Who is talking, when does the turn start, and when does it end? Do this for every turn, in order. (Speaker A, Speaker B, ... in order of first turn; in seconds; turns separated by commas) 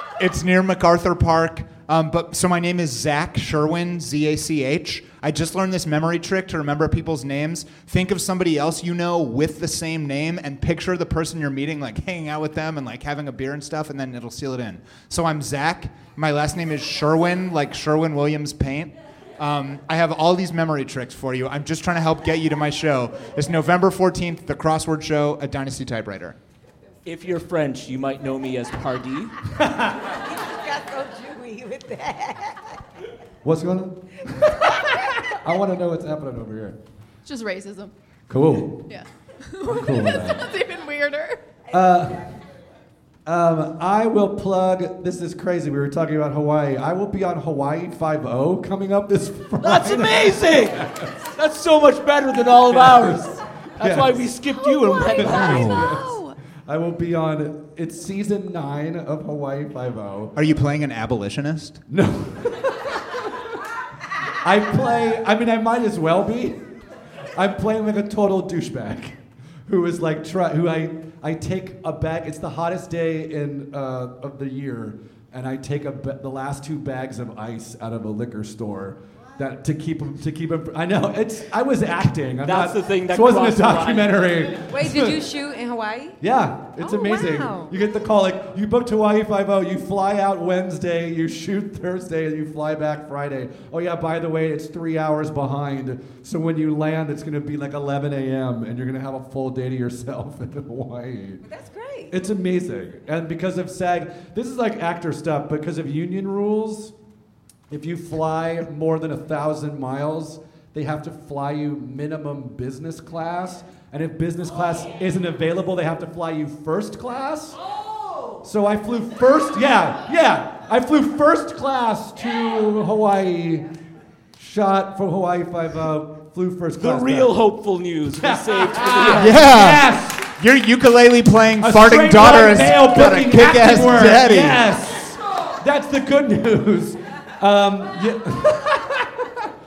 Speaker A: 0.2-26.4, Speaker B: 27.0-29.3, Speaker C: 29.6-30.0, Speaker D: 30.0-32.8, Speaker C: 33.4-36.8, Speaker E: 37.2-37.9, Speaker C: 38.3-38.9, Speaker E: 38.9-41.4, Speaker C: 39.7-40.5, Speaker C: 41.7-42.3, Speaker C: 43.2-51.1, Speaker B: 49.6-55.9, Speaker C: 52.7-54.3, Speaker E: 54.5-56.4, Speaker C: 55.2-60.3, Speaker A: 60.4-61.8, Speaker C: 61.9-63.0, Speaker C: 64.4-66.8, Speaker C: 67.3-85.2, Speaker B: 82.4-84.6, Speaker D: 84.7-86.2, Speaker C: 86.2-101.4, Speaker D: 86.8-87.7, Speaker D: 101.5-102.2, Speaker C: 102.1-106.9, Speaker C: 107.7-117.6, Speaker C: 118.4-123.7, Speaker C: 124.4-127.4, Speaker B: 126.8-129.5, Speaker C: 128.2-130.3, Speaker A: 129.2-134.6, Speaker C: 131.6-139.3